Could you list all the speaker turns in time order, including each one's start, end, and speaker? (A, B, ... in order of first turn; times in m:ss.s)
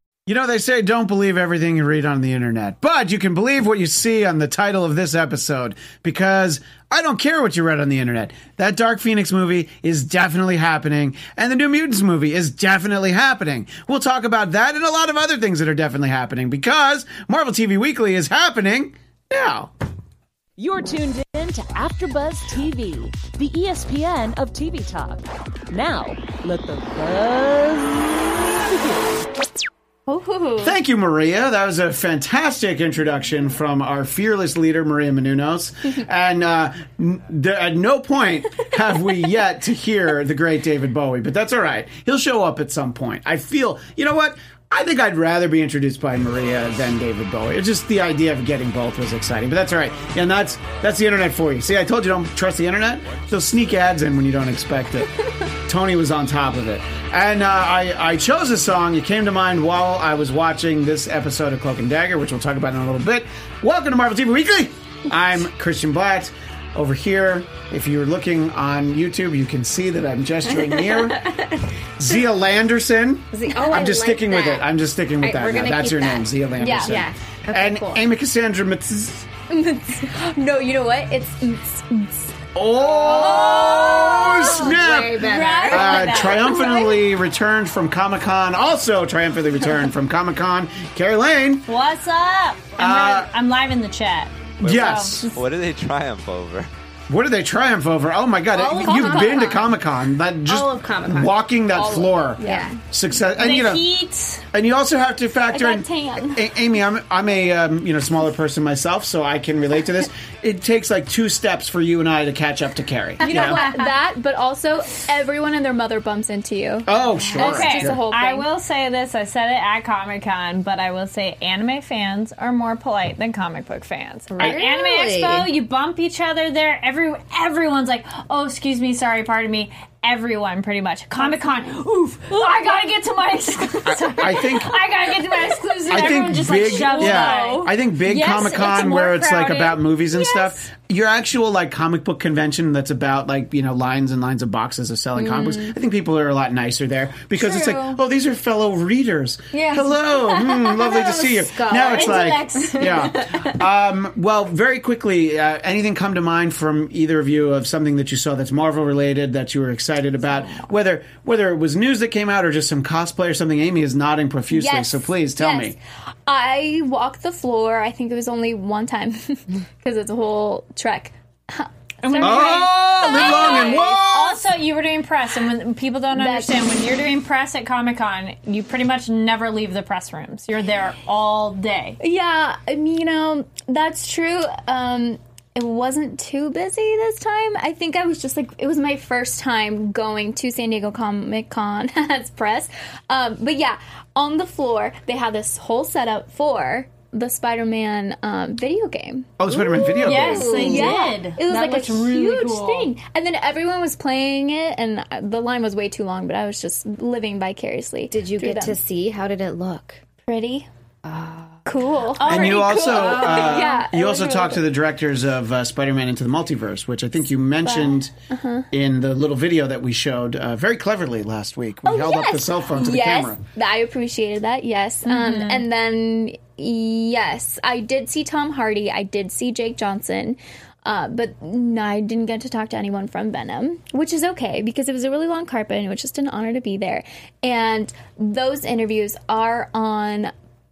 0:00.3-0:19.7 A
0:20.6-0:28.8 B
0:30.1-0:30.7 C
0:30.6-1:11.4 A
1:10.7-1:11.6 D
1:12.0-1:19.3 A
1:13.3-1:14.7 D
1:15.2-1:18.0 D
1:16.6-1:17.0 C
1:19.5-1:24.5 C
1:22.5-1:31.7 A
1:23.0-1:26.7 E
1:23.8-1:26.2 D
1:26.5-1:27.0 C
1:31.7-1:35.4 E
1:32.8-1:33.3 A
1:34.6-1:35.3 A
1:34.6-1:36.7 F
1:37.1-1:43.8 A
1:38.5-1:39.7 D
1:38.8-1:39.5 C
1:40.4-1:42.7 D
1:42.4-1:42.8 C
1:43.4-1:44.5 E
1:44.5-1:53.6 A
1:45.5-1:46.4 C
1:53.2-1:56.9 C
1:53.2-1:53.9 E
1:56.8-1:58.0 A
1:57.2-1:58.5 D
1:57.4-2:20.4 E
2:04.3-2:05.5 D
2:13.8-2:14.7 A
2:15.9-2:45.7 A
2:16.6-2:17.7 C
2:25.4-2:25.7 C
2:27.3-2:28.0 E
2:29.5-2:29.9 E
2:30.3-2:32.3 C
2:31.8-2:33.2 E
2:32.6-2:33.5 D
2:44.5-2:54.0 C
2:52.0-3:02.0 E
2:52.2-2:54.4 A
2:56.1-2:56.6 C
3:02.0-3:28.8 C
3:19.4-3:20.6 A
3:20.0-3:22.9 E
3:20.6-3:20.9 D
3:28.1-3:30.0 D
3:30.2-3:30.7 C
3:31.0-3:31.6 D
3:31.6-3:34.6 C
3:32.2-3:33.7 E
3:32.2-3:38.1 A
3:37.6-3:38.6 C
3:38.7-3:43.4 A
3:41.8-4:00.3 C
3:45.0-3:45.6 E